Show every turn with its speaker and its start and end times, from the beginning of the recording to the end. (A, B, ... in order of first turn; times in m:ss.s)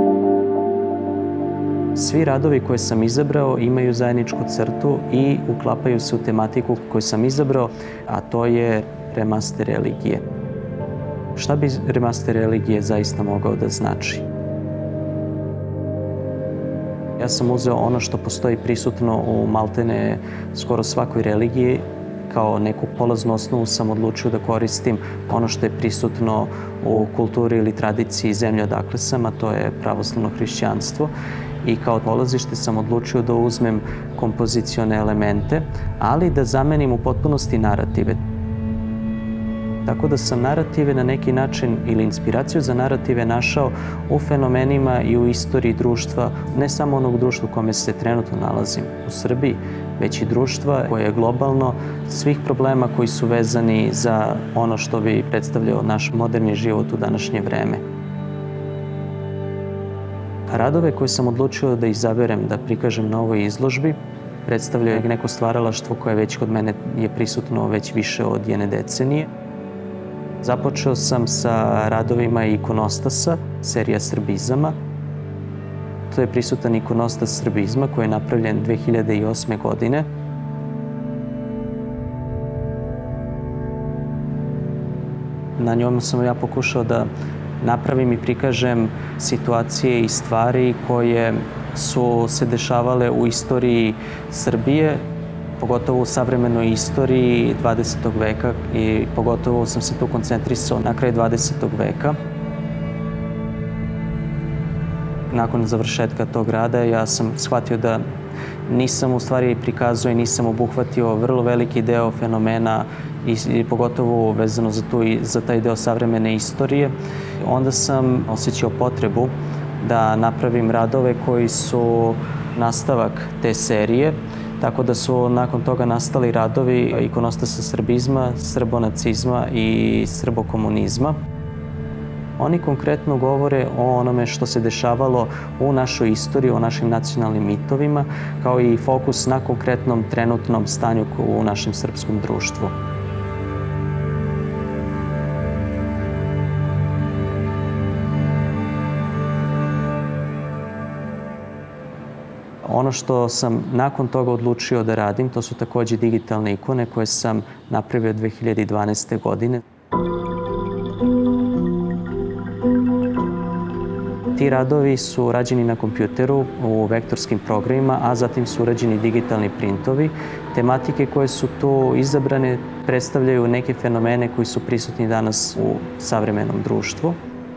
0:02.0-0:10.2 A
0:11.4-0:14.3 A
0:17.2-0:31.1 A
0:31.6-0:38.2 A
0:39.8-0:57.8 A
1:00.5-1:09.3 A
1:10.4-1:14.8 A
1:16.1-1:20.1 A
1:25.6-1:27.1 A
1:27.6-1:35.0 A
1:35.6-1:42.2 A
1:45.3-1:48.0 A
1:48.7-2:11.2 A
2:12.4-2:22.7 A
2:32.6-2:39.6 A
2:44.4-2:57.2 A